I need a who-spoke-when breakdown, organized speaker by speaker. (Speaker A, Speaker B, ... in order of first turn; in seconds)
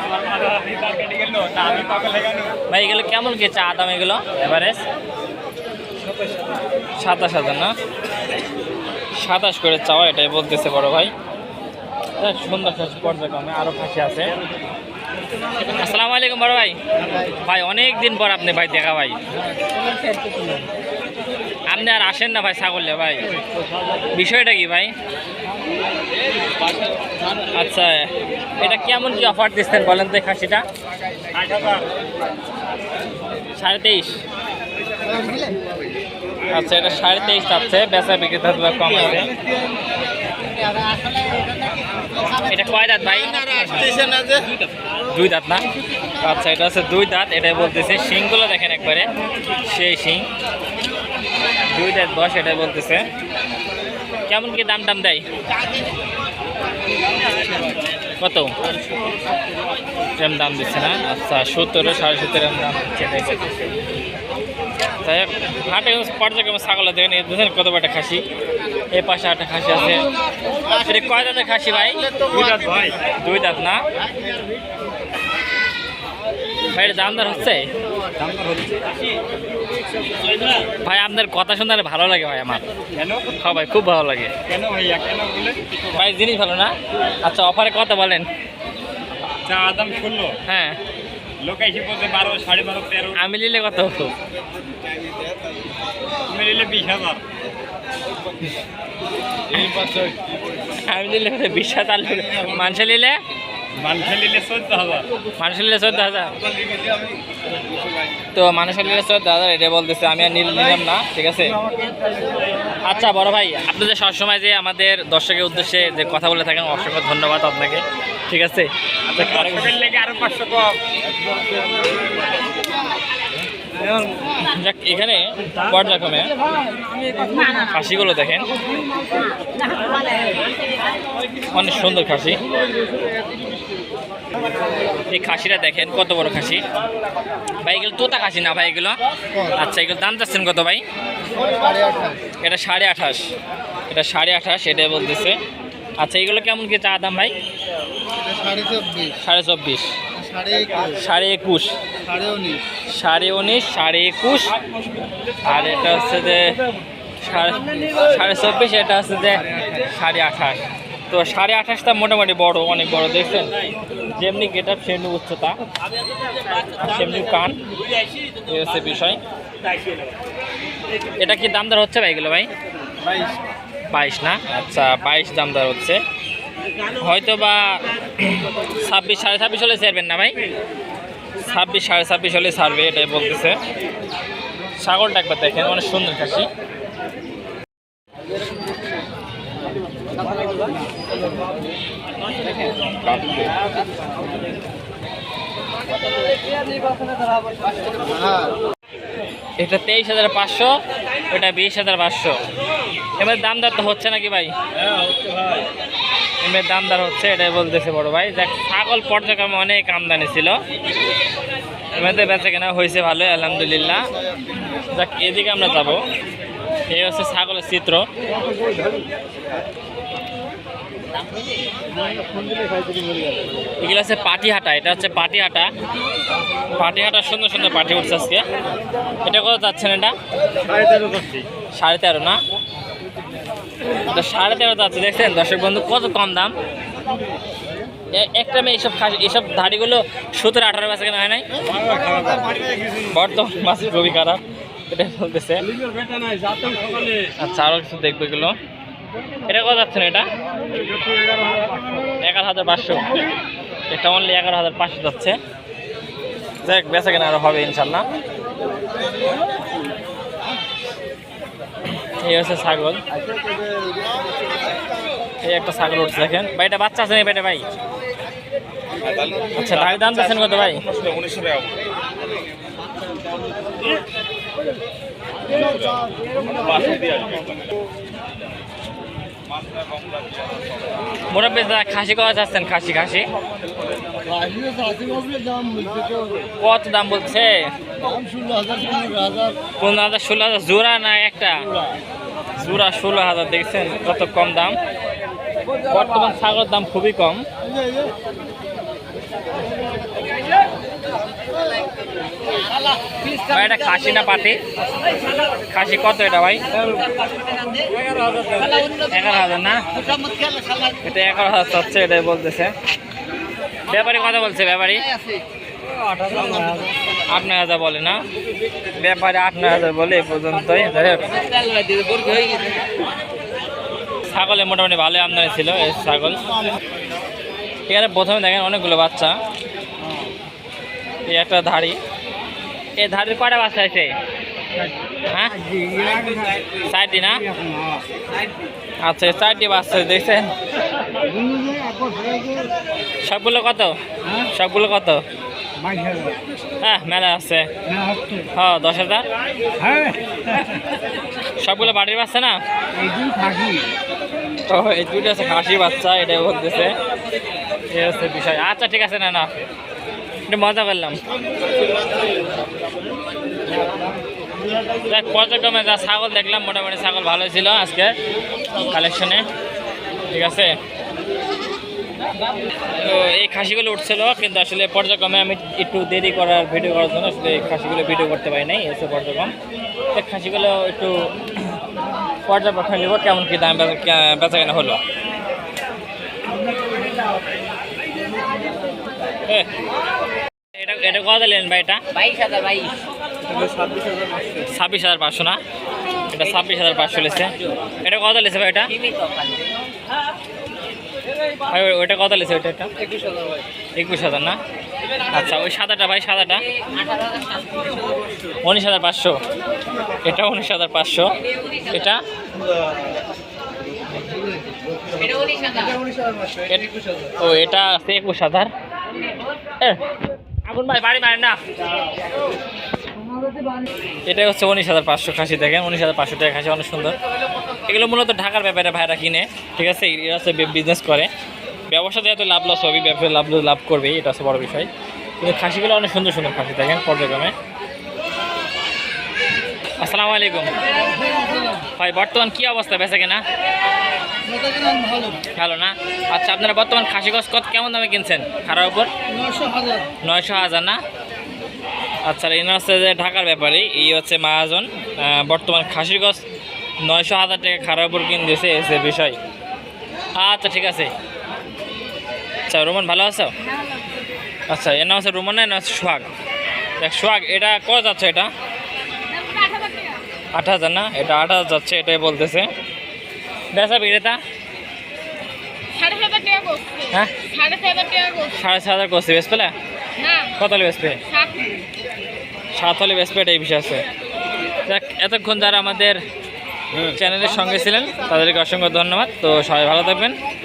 Speaker A: 0.1-2.6, 31.3-31.8, 72.3-73.0, 78.2-78.9, 82.9-83.4, 84.5-85.9, 89.4-90.4, 91.4-93.2, 96.3-97.2, 99.5-100.2, 103.8-105.1, 106.5-107.1, 119.1-120.8, 269.0-270.0, 270.7-271.8, 276.7-277.6, 279.8-280.6
Speaker B: 2.7-4.8, 7.0-7.7, 9.2-11.1, 12.2-14.3, 15.7-16.8, 17.3-19.2, 21.7-23.3, 24.1-24.9, 27.5-30.6, 33.5-34.2, 36.5-39.3, 42.5-43.7, 45.1-45.7, 46.2-49.1, 49.6-50.3, 51.7-53.1, 54.3-55.2, 58.2-58.5, 60.2-63.7, 65.0-68.2, 68.9-70.0, 70.8-72.0, 73.1-73.8, 76.7-77.7, 80.8-82.6, 83.4-84.3, 85.9-88.3, 90.5-90.8, 93.2-94.1, 100.7-103.2, 105.4-106.4, 108.3-111.6, 112.8-119.8, 124.4-126.3, 127.5-128.5, 131.5-132.4, 135.1-136.6, 137.6-139.0, 139.5-140.8, 142.4-143.3, 143.9-145.4, 146.0-147.3, 149.2-149.9, 150.9-151.7, 152.9-154.5, 155.4-156.6, 157.2-163.5, 164.2-165.6, 166.8-167.6, 168.5-169.2, 171.2-172.5, 173.9-176.0, 177.0-180.4, 181.4-183.6, 184.8-186.5, 199.6-200.8, 201.3-202.3, 203.2-204.5, 206.4-210.6, 212.0-214.1, 214.9-216.0, 216.9-218.1, 223.8-225.7, 226.7-228.4, 229.2-230.1, 231.7-232.4, 234.1-236.5, 238.1-241.5, 243.0-245.7, 247.4-248.5, 249.5-250.3, 252.2-253.2, 253.9-255.4, 256.6-258.1, 262.2-263.0, 265.4-267.6, 269.5-270.9, 281.3-283.2, 286.6-287.7, 289.8-291.7, 292.6-294.8, 295.9-297.5, 303.4-304.6, 305.7-306.6, 309.0-309.9, 311.0-312.7, 313.9-315.1, 317.3-318.2, 318.9-321.4, 324.3-326.4, 327.9-329.3, 331.3-332.0, 333.0-334.1, 335.3-335.6, 336.8-337.5, 339.0-340.5, 343.2-345.2, 346.8-347.7, 348.5-349.2, 351.6-352.6, 354.7-356.9, 357.9-359.6, 360.5-361.2, 365.1-368.1, 368.9-369.4, 370.3-370.8, 372.9-379.5, 380.1-381.8, 382.5-385.0, 390.8-392.0, 394.6-395.6, 396.3-399.2, 401.7-402.9, 403.9-404.6, 405.3-406.7, 408.6-409.4, 410.2-412.2, 416.7-418.7, 420.6-421.6, 424.3-427.2, 427.9-431.3, 431.9-434.9, 435.4-437.5, 440.0-440.7, 442.0-443.4, 445.5-449.1, 450.2-451.0, 452.2-456.4, 457.0-459.4, 460.4-461.1, 462.7-463.5, 464.7-466.3, 467.0-468.5, 470.5-472.7, 473.7-474.4, 477.1-477.4, 478.4-479.7, 480.4-481.2, 482.8-484.0, 484.9-486.2, 487.1-490.3
Speaker C: 19.6-20.6, 35.0-36.0, 39.1-44.5, 72.1-72.6, 141.3-142.2, 148.2-149.2, 150.2-150.9, 152.0-152.6, 197.9-198.5, 263.4-264.0, 275.8-276.8, 284.3-286.4, 288.1-289.6, 307.9-308.9, 310.0-311.0, 316.3-316.8, 335.7-336.6, 337.5-338.0, 341.3-342.7, 345.9-346.4, 348.0-348.4, 349.9-350.1, 353.0-353.9, 414.3-415.9, 441.0-441.9, 444.4-445.4, 449.3-450.1
Speaker D: 469.5-470.1, 476.0-477.0, 477.6-478.3